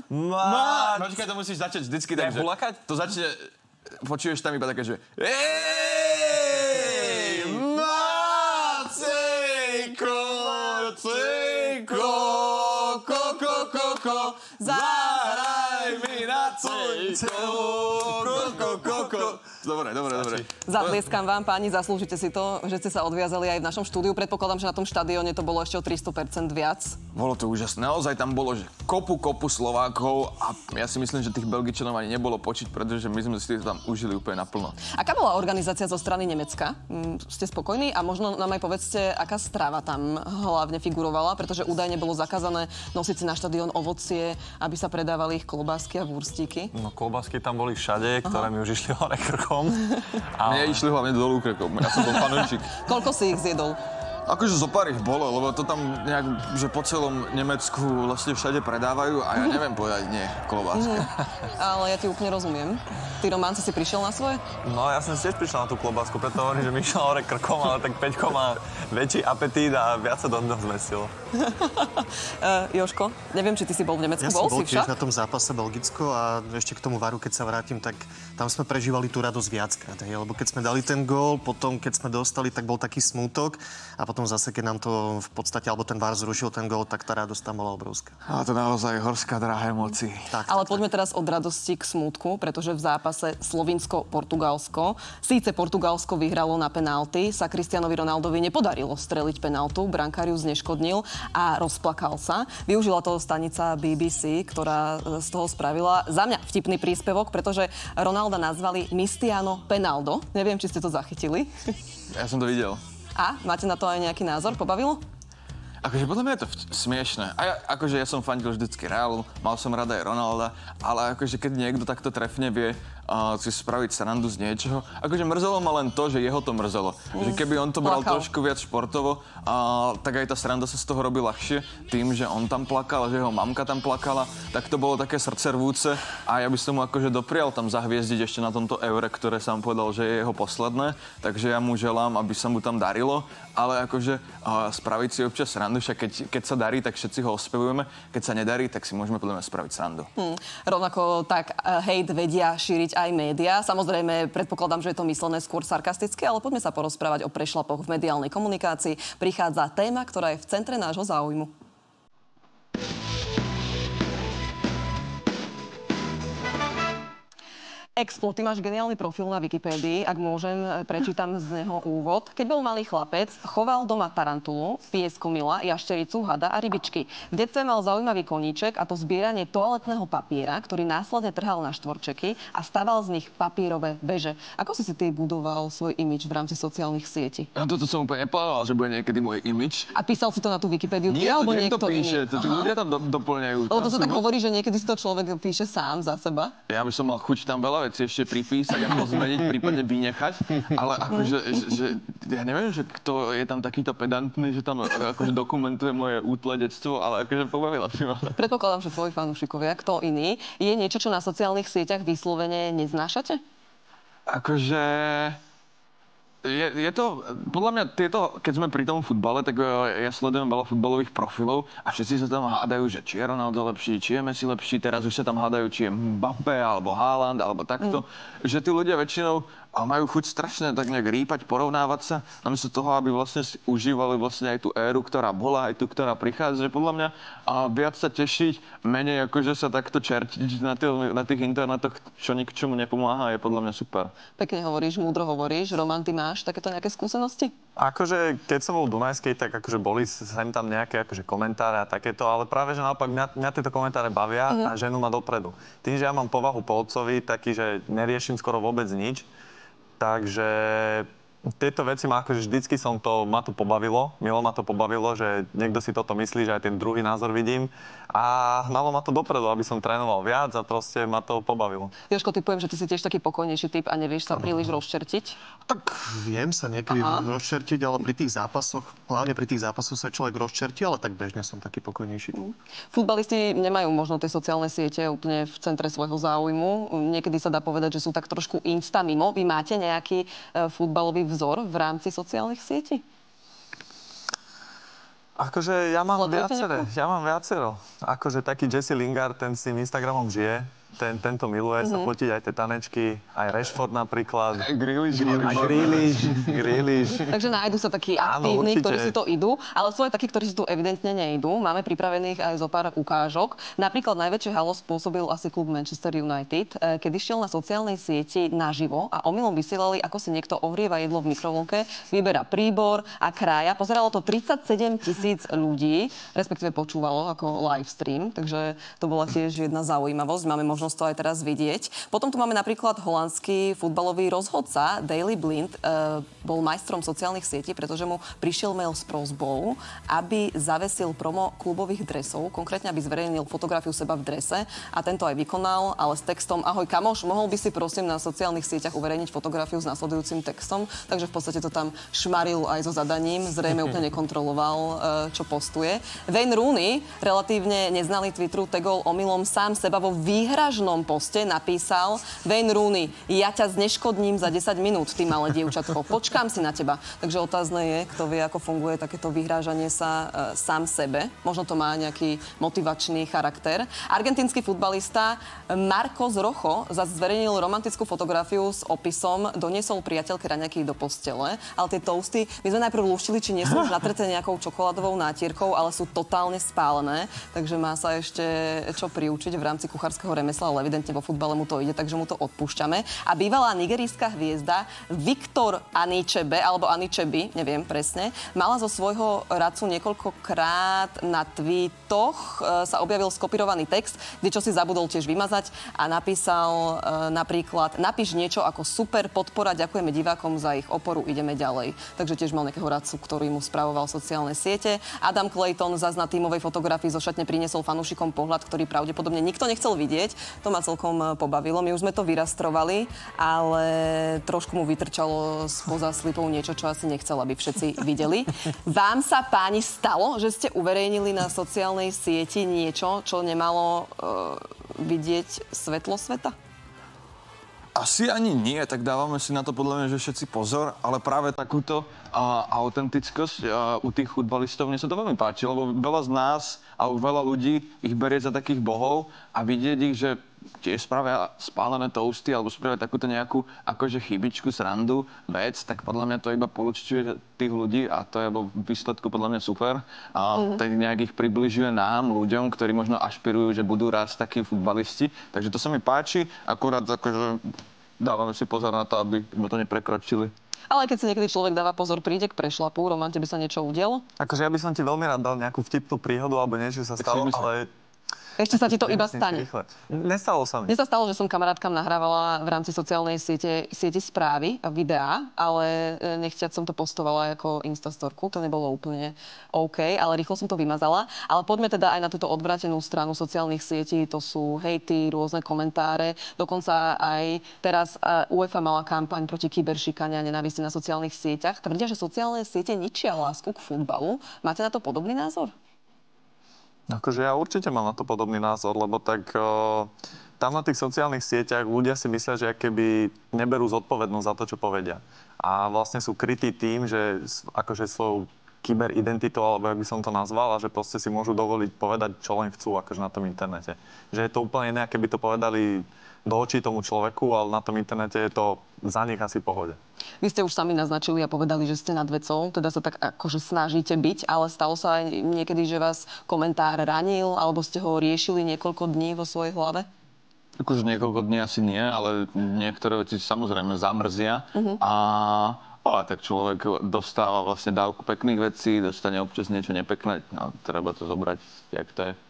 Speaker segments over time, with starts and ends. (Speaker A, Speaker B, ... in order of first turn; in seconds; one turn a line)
Speaker A: 0.1-1.2
Speaker B: 0.4-21.0
Speaker A: 2.1-2.8
Speaker A: 7.0-7.6
Speaker C: 14.6-15.3
Speaker A: 17.0-19.4
Speaker A: 20.1-20.4
Speaker C: 20.6-27.0
Speaker B: 27.1-34.8
Speaker C: 34.9-46.7
Speaker A: 46.7-50.8
Speaker B: 50.4-52.8
Speaker C: 52.8-53.8
Speaker B: 54.2-61.1
Speaker C: 60.7-64.4
Speaker A: 64.6-71.1
Speaker C: 71.3-74.9
Speaker D: 74.2-88.1
Speaker B: 88.2-90.3
Speaker D: 90.3-90.8
Speaker C: 90.5-111.7
Speaker B: 112.1-112.8
Speaker C: 113.2-115.0
Speaker B: 115.8-150.1
Speaker C: 127.1-128.3
Speaker C: 150.2-161.5
Speaker C: 168.0-187.5
Speaker B: 187.5-189.9
Speaker C: 189.9-192.3
Speaker B: 191.1-194.2
Speaker C: 193.7-196.5
Speaker B: 196.7-208.4
Speaker C: 208.3-213.4
Speaker B: 214.3-215.4
Speaker B: 216.4-244.1
Speaker C: 244.4-247.5
Speaker A: 247.8-259.3
Speaker A: 260.0-271.9
Speaker C: 272.1-275.4
Speaker D: 275.7-282.4
Speaker C: 277.0-277.2
Speaker C: 282.5-293.0
Speaker A: 295.4-307.4
Speaker C: 296.1-296.8
Speaker C: 301.8-302.1
Speaker B: 304.6-306.2
Speaker C: 307.3-436.5
Speaker A: 308.2-309.1
Speaker B: 437.9-467.6
Speaker B: 468.2-470.5
Speaker C: 470.9-474.2
Speaker A: 474.4-477.9
Speaker B: 477.2-477.7
Speaker C: 478.6-479.7
Speaker A: 478.9-480.9
Speaker C: 480.9-505.7
Speaker A: 507.1-530.0
Speaker C: 530.4-540.1
Speaker B: 540.8-552.4